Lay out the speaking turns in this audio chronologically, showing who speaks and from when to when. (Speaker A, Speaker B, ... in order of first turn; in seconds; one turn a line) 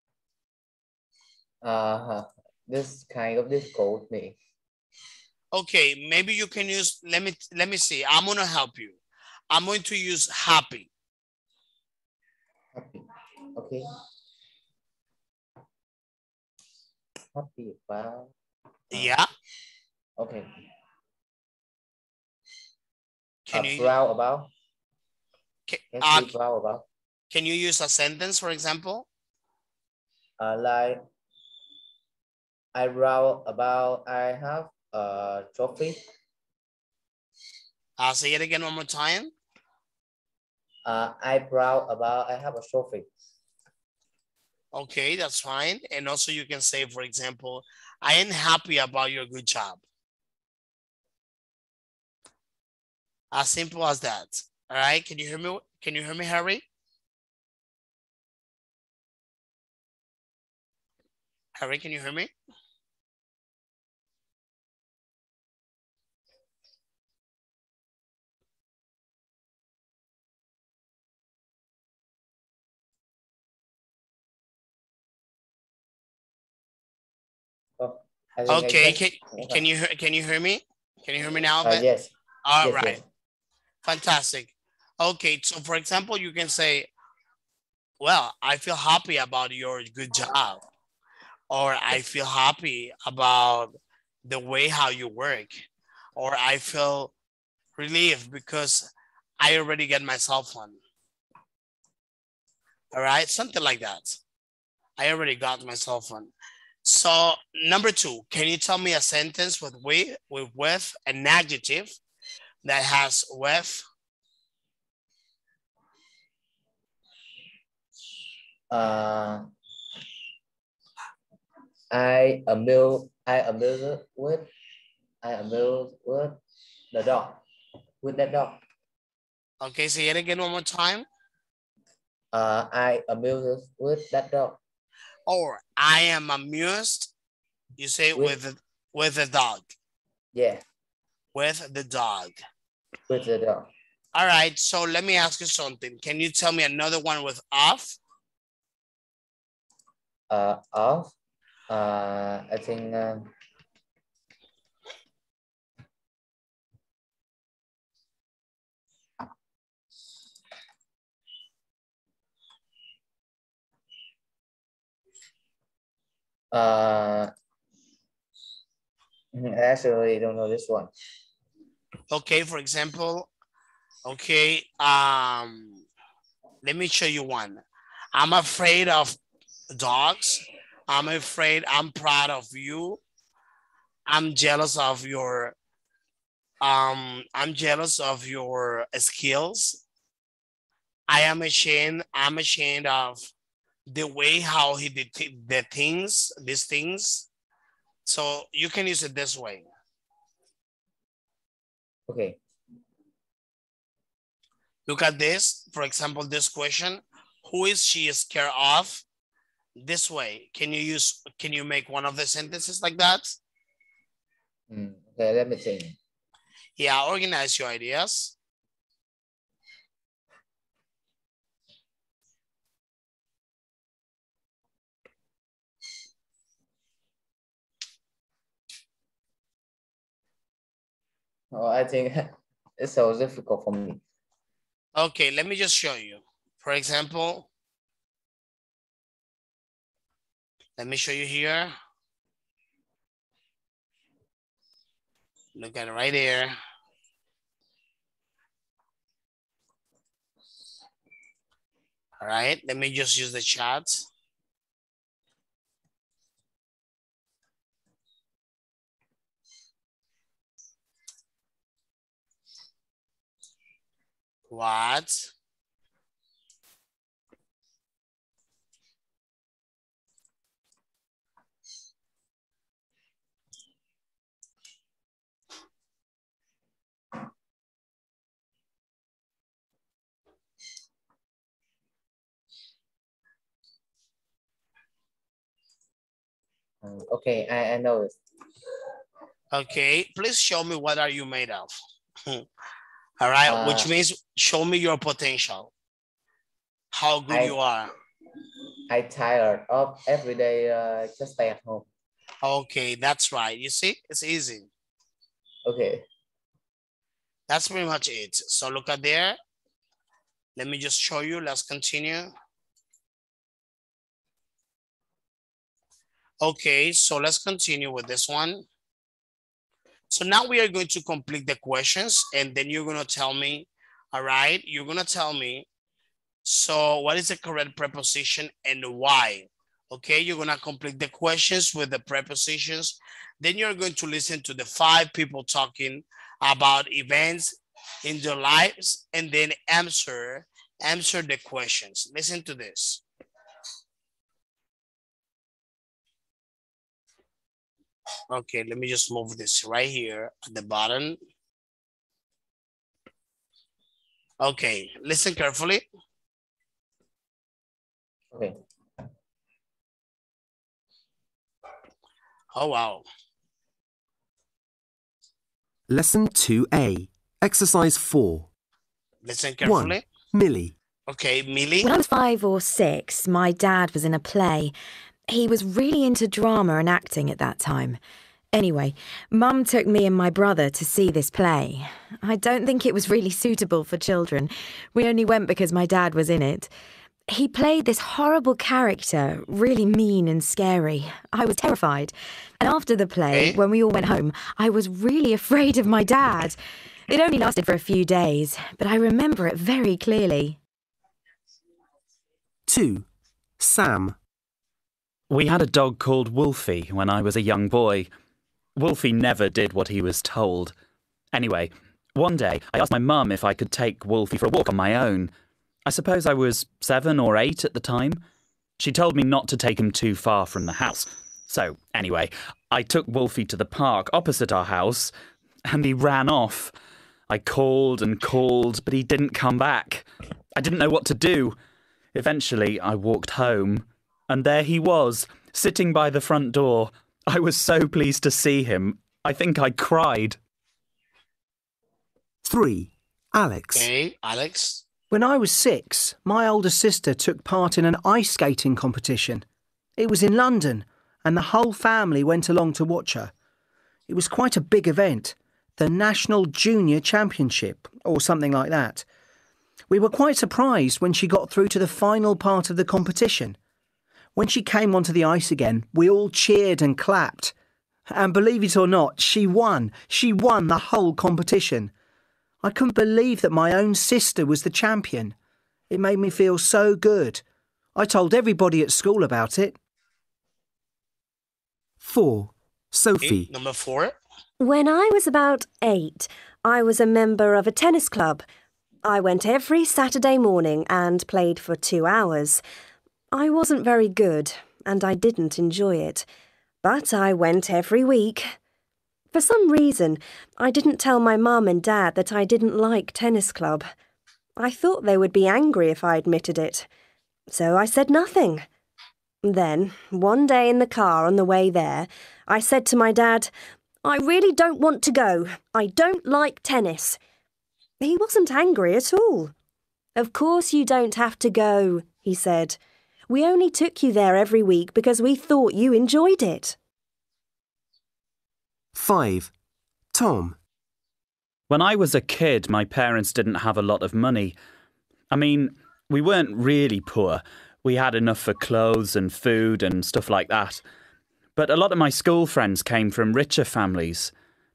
Speaker A: 1.6-4.4
Speaker B: 5.5-9.0
Speaker B: 9.5-10.9
Speaker A: 12.8-13.1
Speaker A: 13.6-13.8
Speaker A: 17.4-18.3
Speaker B: 18.9-19.3
Speaker A: 20.2-20.5
Speaker B: 23.5-23.9
Speaker A: 23.5-24.5
Speaker B: 25.7-26.3
Speaker A: 25.9-26.9
Speaker B: 27.3-29.1
Speaker A: 30.4-31.0
Speaker A: 32.8-36.0
Speaker B: 38.0-39.3
Speaker A: 40.9-43.1
Speaker B: 44.7-49.8
Speaker B: 53.3-56.6
Speaker B: 61.5-62.3
Speaker A: 77.8-79.6
Speaker B: 78.5-81.8
Speaker A: 81.6-83.0
Speaker B: 82.5-83.0
Speaker B: 83.8-86.9
Speaker B: 88.0-90.6
Speaker B: 91.5-97.1
Speaker B: 97.8-100.8
Speaker B: 102.9-104.2
Speaker B: 105.0-106.3
Speaker B: 106.8-112.0
Speaker B: 112.6-113.8
Speaker A: 118.7-119.5
Speaker A: 121.9-124.5
Speaker A: 125.2-126.4
Speaker A: 126.9-127.4
Speaker A: 128.0-128.6
Speaker B: 129.6-131.1
Speaker A: 132.3-134.6
Speaker B: 135.3-137.1
Speaker B: 137.8-139.7
Speaker A: 138.1-138.4
Speaker A: 140.3-140.6
Speaker B: 141.3-142.4
Speaker A: 143.1-143.7
Speaker B: 144.1-148.0
Speaker A: 150.3-151.1
Speaker A: 151.7-153.3
Speaker A: 166.5-167.3
Speaker A: 169.3-170.9
Speaker B: 172.1-173.3
Speaker B: 174.1-175.8
Speaker B: 176.6-177.6
Speaker B: 178.1-179.2
Speaker B: 179.7-183.0
Speaker B: 184.1-185.6
Speaker B: 186.6-189.8
Speaker B: 191.1-193.3
Speaker B: 193.9-197.3
Speaker B: 198.1-199.7
Speaker A: 202.1-202.4
Speaker B: 204.9-209.1
Speaker B: 209.8-213.4
Speaker A: 214.7-216.0
Speaker B: 216.8-218.3
Speaker A: 231.5-234.0
Speaker B: 235.0-237.5
Speaker B: 240.8-241.7
Speaker B: 245.6-246.6
Speaker B: 252.2-254.1
Speaker B: 264.5-265.3
Speaker A: 286.8-288.2
Speaker B: 289.5-292.5
Speaker B: 293.2-295.7
Speaker A: 293.5-293.9
Speaker B: 296.9-297.9
Speaker A: 297.3-297.6
Speaker A: 298.9-301.9
Speaker B: 302.4-304.7
Speaker A: 305.7-306.0
Speaker B: 307.5-309.4
Speaker B: 310.6-312.3
Speaker B: 316.4-318.7
Speaker B: 320.1-325.6
Speaker B: 326.4-343.0
Speaker B: 348.3-351.2
Speaker B: 354.4-355.8
Speaker B: 362.5-363.1
Speaker C: 365.9-368.5
Speaker B: 369.2-370.1
Speaker C: 369.6-370.8
Speaker B: 371.1-371.9
Speaker D: 371.8-374.7
Speaker D: 375.3-378.0
Speaker D: 378.5-386.7
Speaker D: 387.3-396.6
Speaker B: 393.3-393.6
Speaker D: 397.1-400.6
Speaker C: 402.7-403.1
Speaker C: 403.6-404.2
Speaker E: 405.3-408.1
Speaker E: 408.8-410.8
Speaker E: 411.3-415.3
Speaker E: 415.9-418.2
Speaker E: 418.8-425.1
Speaker E: 425.7-426.7
Speaker E: 427.3-430.1
Speaker E: 430.6-431.6
Speaker E: 432.1-440.4
Speaker C: 442.4-443.9
Speaker B: 443.7-444.8
Speaker F: 445.1-449.4
Speaker F: 450.0-453.3
Speaker F: 454.1-459.1
Speaker F: 459.9-463.6
Speaker F: 464.4-467.5
Speaker F: 468.1-471.9
Speaker F: 472.6-475.4
Speaker F: 475.9-477.4
Speaker F: 477.9-479.8
Speaker C: 482.0-483.5
Speaker B: 483.2-484.2
Speaker G: 484.6-488.4
Speaker G: 489.1-492.6
Speaker G: 493.3-496.3
Speaker G: 496.8-498.6
Speaker G: 499.3-503.9
Speaker G: 504.6-506.9
Speaker G: 507.5-508.7
Speaker G: 509.4-513.5
Speaker G: 514.0-517.2
Speaker G: 518.0-519.5
Speaker G: 520.2-522.8
Speaker G: 523.3-526.8
Speaker C: 528.9-529.5
Speaker C: 530.1-530.6
Speaker E: 531.7-534.5
Speaker E: 535.3-540.8
Speaker E: 541.6-544.3